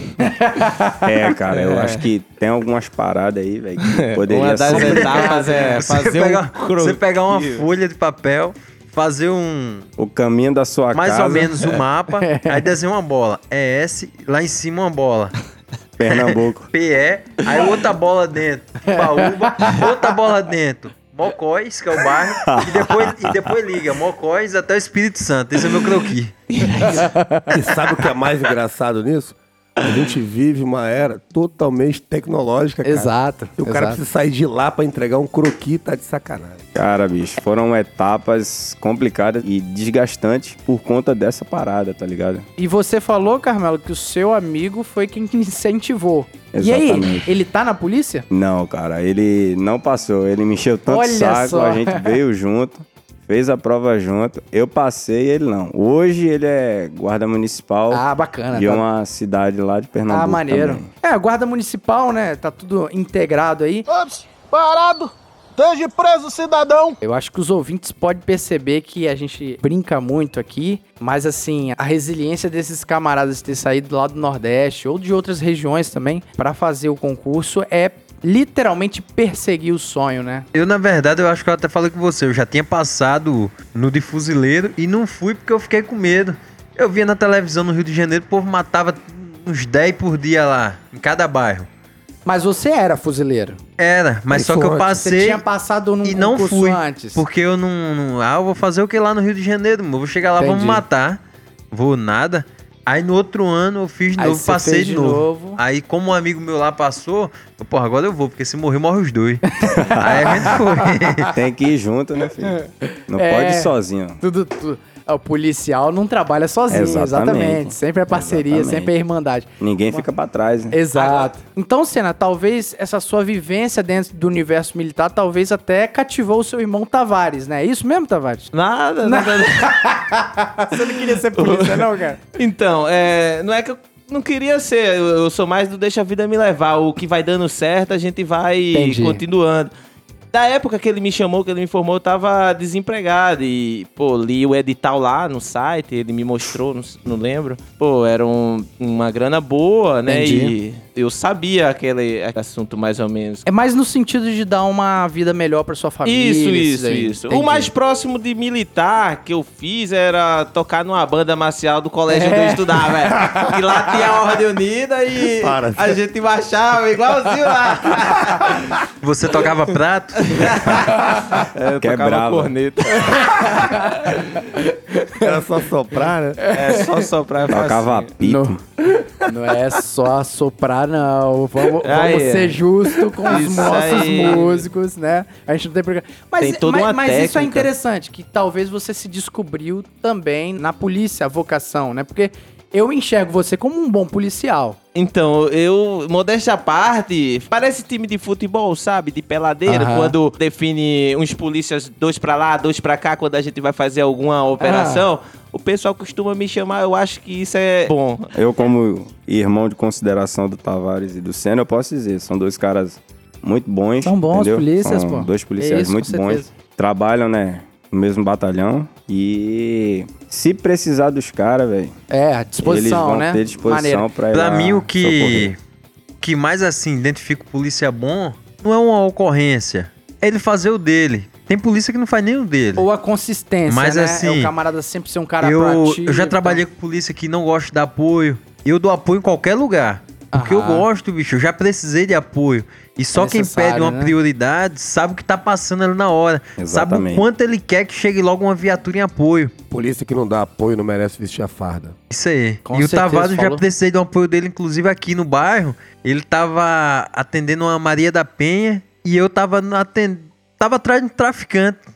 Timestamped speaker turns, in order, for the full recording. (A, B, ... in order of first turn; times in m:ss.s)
0:00.2-0:01.0 A
0:01.0-0:05.7 B
0:01.5-0:02.0 C
0:03.8-0:07.6 C
0:04.7-0:09.9 D
0:10.0-0:11.8 B
0:10.9-0:15.3 D
0:12.2-0:12.6 A
0:16.0-0:16.7 B
0:16.1-0:26.3 D
0:18.9-0:19.8 A
0:22.4-0:23.5 B
0:26.5-0:27.0 C
0:26.7-0:27.6 A
0:27.5-0:36.6 E
0:32.8-0:34.0 A
0:36.7-0:42.5 B
0:42.6-0:48.2 A
0:46.5-0:47.3 B
0:48.3-1:00.9 B
0:50.9-0:52.2 A
0:57.9-0:58.8 A
1:00.1-1:03.8 A
1:03.9-1:07.0 F
1:07.0-1:20.4 A
1:20.5-1:31.7 D
1:32.2-1:33.6 A
1:33.8-1:35.4 D
1:34.3-1:35.0 E
1:35.0-1:37.2 A
1:36.0-1:41.2 D
1:40.4-1:40.8 A
1:41.7-1:51.3 D
1:44.2-1:45.6 A
1:49.6-1:51.3 A
1:49.8-1:50.6 B
1:51.3-1:54.2 B
1:52.5-2:00.0 A
1:56.7-1:58.9 B
1:59.6-2:00.8 B
2:00.7-2:08.5 A
2:08.5-2:09.8 C
2:09.0-2:12.2 A
2:10.7-2:19.7 C
2:18.7-2:19.2 A
2:20.3-2:33.4 C
2:30.1-2:30.5 A
2:33.4-2:37.7 A
2:36.0-2:48.8 C
2:42.1-2:43.4 A
2:45.3-2:46.0 E
2:49.0-2:50.6 D
2:50.2-2:54.4 C
2:51.8-2:52.5 B
2:53.0-2:55.2 A
2:55.2-2:56.4 E
2:56.4-2:56.8 A
2:56.5-2:58.1 C
2:57.5-2:58.6 B
2:58.2-2:58.6 A
2:59.2-3:14.8 A
3:01.8-3:02.6 C
3:03.2-3:04.7 C
3:06.4-3:07.7 C
3:14.9-3:28.3 C
3:19.7-3:20.1 A
3:24.6-3:25.1 A
3:28.3-3:42.0 B
3:34.0-3:36.5 A
3:42.1-3:44.0 A
3:42.6-3:45.5 B
3:44.3-3:45.6 D
3:46.2-3:52.8 D
3:52.8-3:56.6 A
3:53.7-3:54.5 D
3:55.4-4:09.5 D
4:00.3-4:00.9 A
4:03.1-4:04.2 A
4:06.6-4:07.2 B
4:09.7-4:12.0 E
4:12.1-4:21.8 D
4:12.6-4:13.6 A